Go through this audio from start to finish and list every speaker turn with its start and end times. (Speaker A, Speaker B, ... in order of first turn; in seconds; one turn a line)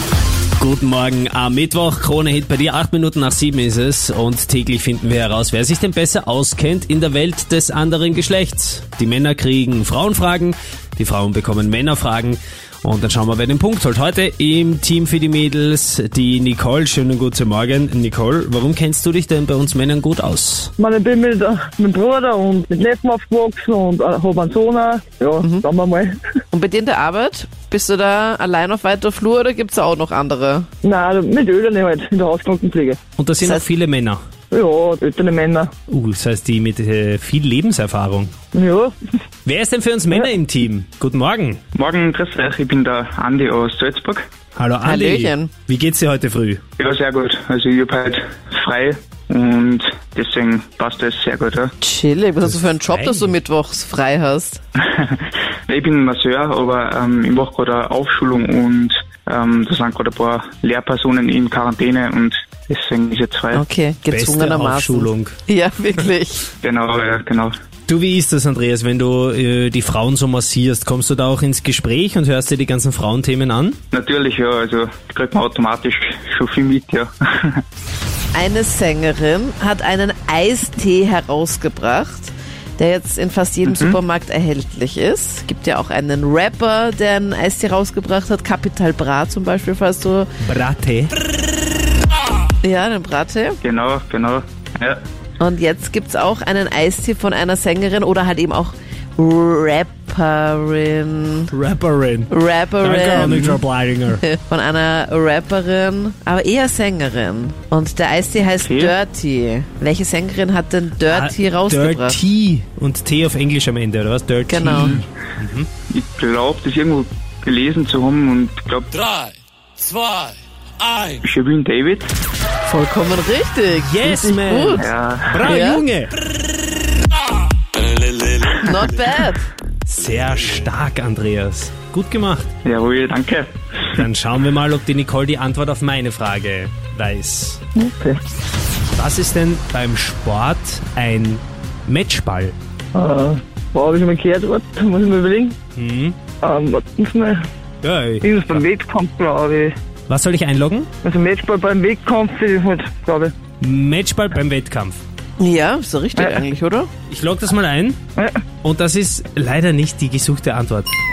Speaker A: 0.6-20.7
Speaker B: 20.8-26.2
Speaker C: 26.5-30.7
Speaker B: 30.8-33.0
Speaker A: 33.2-34.2
Speaker C: 33.4-33.6
Speaker B: 34.5-35.7
Speaker A: 35.9-38.3
Speaker B: 38.5-38.9
Speaker A: 39.4-41.6
Speaker D: 41.7-44.2
Speaker A: 44.5-46.6
Speaker C: 44.8-45.5
Speaker D: 46.8-51.7
Speaker C: 51.8-54.6
Speaker A: 52.5-53.4
Speaker D: 54.9-63.6
Speaker C: 63.5-66.5
Speaker A: 64.1-65.3
Speaker D: 66.6-67.5
Speaker A: 67.9-73.8
Speaker D: 73.9-77.6
Speaker C: 78.3-90.3
Speaker D: 83.7-84.0
Speaker A: 90.4-91.2
Speaker C: 92.6-93.6
Speaker D: 93.6-95.0
Speaker C: 95.4-101.5
Speaker A: 101.5-104.2
Speaker C: 102.3-103.6
Speaker D: 103.2-103.5
Speaker C: 104.2-112.2
Speaker D: 108.6-108.9
Speaker A: 111.1-115.7
Speaker C: 114.5-115.0
Speaker D: 115.9-118.9
Speaker B: 119.9-120.3
Speaker D: 121.2-122.1
Speaker C: 122.6-124.9
Speaker A: 123.7-126.1
Speaker D: 124.8-125.5
Speaker C: 125.4-125.8
Speaker C: 128.5-129.4
Speaker A: 129.8-132.5
Speaker D: 132.6-134.1
Speaker A: 133.9-137.6
Speaker B: 137.8-138.2
Speaker A: 138.9-142.6
Speaker B: 142.9-145.6
Speaker A: 145.8-146.2
Speaker B: 146.4-147.5
Speaker A: 147.8-148.6
Speaker B: 148.2-149.8
Speaker A: 150.1-150.9
Speaker B: 151.0-153.3
Speaker A: 153.6-155.0
Speaker C: 155.4-156.9
Speaker A: 157.1-158.0
Speaker B: 158.2-158.4
Speaker A: 158.6-160.9